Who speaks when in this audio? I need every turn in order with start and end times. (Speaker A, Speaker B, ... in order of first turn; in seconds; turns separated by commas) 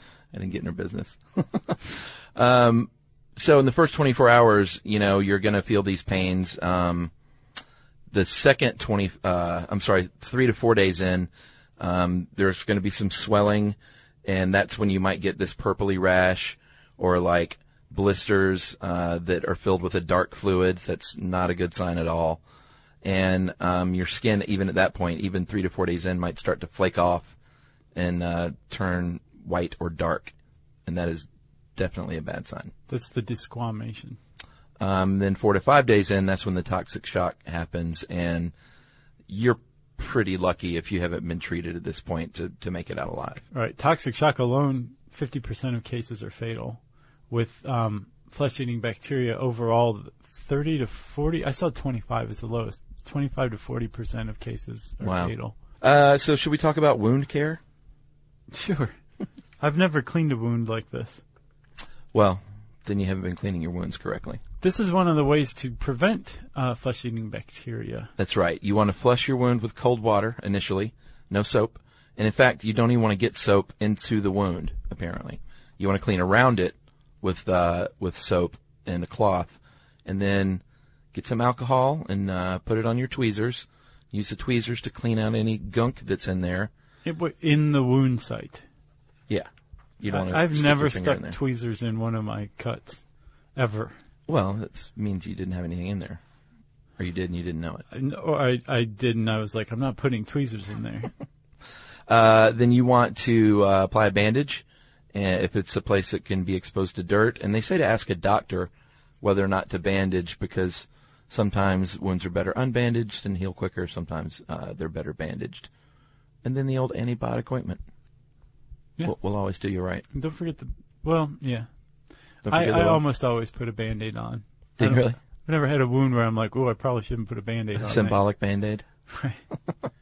Speaker A: 0.3-7.1, Speaker A: 8.1-22.4, Speaker A: 23.0-27.3, Speaker A: 27.9-30.3, Speaker A: 30.9-32.7, Speaker B: 32.9-34.2, Speaker A: 34.8-38.5, Speaker A: 39.3-43.4, Speaker B: 43.5-55.5, Speaker A: 55.0-57.6, Speaker B: 58.5-59.0, Speaker B: 59.6-61.2, Speaker A: 62.1-64.4, Speaker B: 64.6-68.1, Speaker A: 68.2-80.6, Speaker A: 81.1-86.7, Speaker B: 87.0-88.6, Speaker A: 90.0-91.4, Speaker B: 90.1-93.0, Speaker B: 93.5-93.9, Speaker A: 94.3-96.2, Speaker A: 97.0-97.8, Speaker B: 97.9-101.1, Speaker A: 102.1-115.7, Speaker A: 116.4-117.8, Speaker A: 119.0-120.0, Speaker B: 120.1-121.7, Speaker A: 122.4-123.0, Speaker B: 122.5-128.2, Speaker A: 124.8-125.2, Speaker A: 127.8-128.8, Speaker B: 129.1-129.4